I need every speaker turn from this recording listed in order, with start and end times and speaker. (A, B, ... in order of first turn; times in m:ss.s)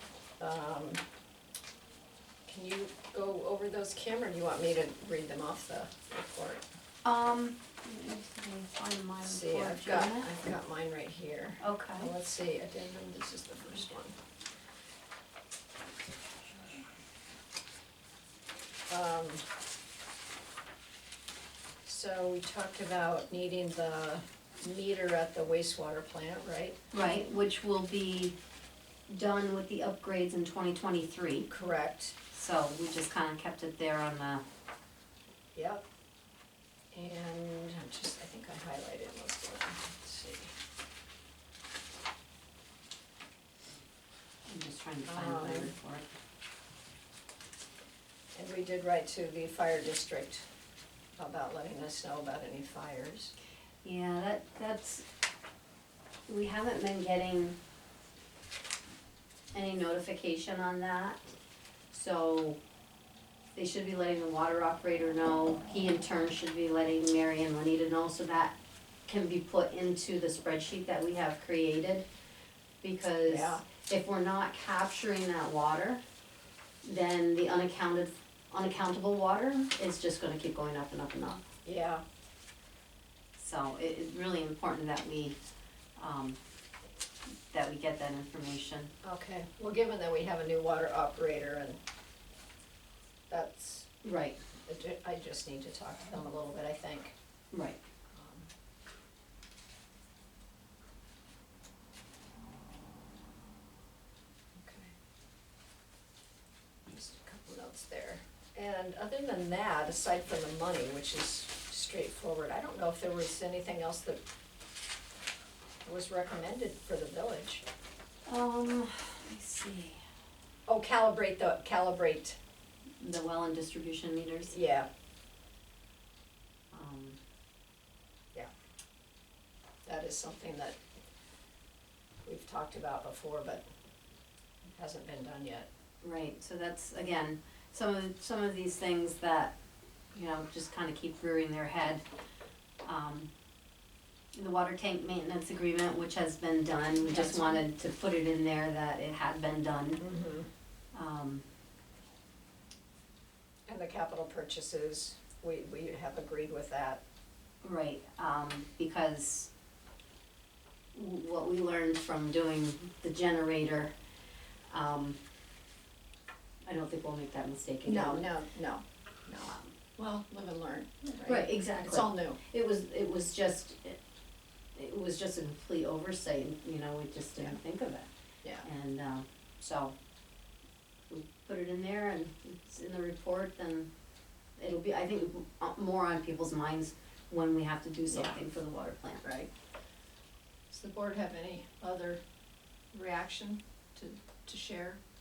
0:00.4-0:01.0 A
0:02.5-0:06.6 A
0:07.0-0:10.3 B
0:09.2-0:14.2 A
0:11.6-0:12.1 B
0:18.9-0:19.4 A
0:21.8-0:26.8 A
0:26.9-0:28.3 B
0:29.1-0:31.5 B
0:31.5-0:32.2 A
0:32.3-0:34.4 B
0:35.5-0:35.8 A
0:36.9-0:40.5 A
0:44.5-0:46.1 B
0:45.0-0:45.7 A
0:48.3-0:50.4 A
0:51.2-0:53.3 A
0:53.8-0:55.0 B
0:56.3-0:57.6 B
0:59.5-1:01.3 B
1:01.9-1:02.6 B
1:03.6-1:08.6 B
1:09.1-1:12.0 B
1:12.8-1:16.0 B
1:13.2-1:13.6 A
1:16.8-1:21.4 B
1:21.6-1:22.0 A
1:23.3-1:25.4 B
1:26.0-1:26.4 B
1:27.5-1:28.9 B
1:29.0-1:31.8 A
1:33.3-1:33.9 A
1:34.0-1:34.4 B
1:34.7-1:37.1 A
1:37.5-1:37.8 B
1:38.1-1:38.5 A
1:44.6-1:44.9 A
1:46.9-1:54.2 A
1:55.8-1:57.6 A
1:58.2-2:00.0 B
2:00.7-2:02.4 A
2:03.0-2:04.6 B
2:04.5-2:04.9 A
2:06.7-2:07.2 B
2:09.8-2:10.8 A
2:12.2-2:13.6 A
2:14.8-2:15.7 A
2:16.0-2:19.5 B
2:20.1-2:22.0 B
2:22.8-2:23.3 B
2:24.3-2:30.0 B
2:27.1-2:27.6 A
2:30.0-2:30.5 A
2:30.9-2:31.4 B
2:33.7-2:37.0 A
2:37.6-2:39.5 B
2:40.9-2:43.9 B
2:44.7-2:45.2 B
2:46.6-2:48.3 B
2:47.8-2:52.4 A
2:51.2-2:54.0 B
2:54.8-2:58.1 B
2:58.6-2:59.9 B
3:01.1-3:03.9 B
3:04.6-3:09.3 B
3:08.1-3:08.4 A
3:09.2-3:09.5 A
3:10.7-3:12.2 A
3:12.9-3:15.0 A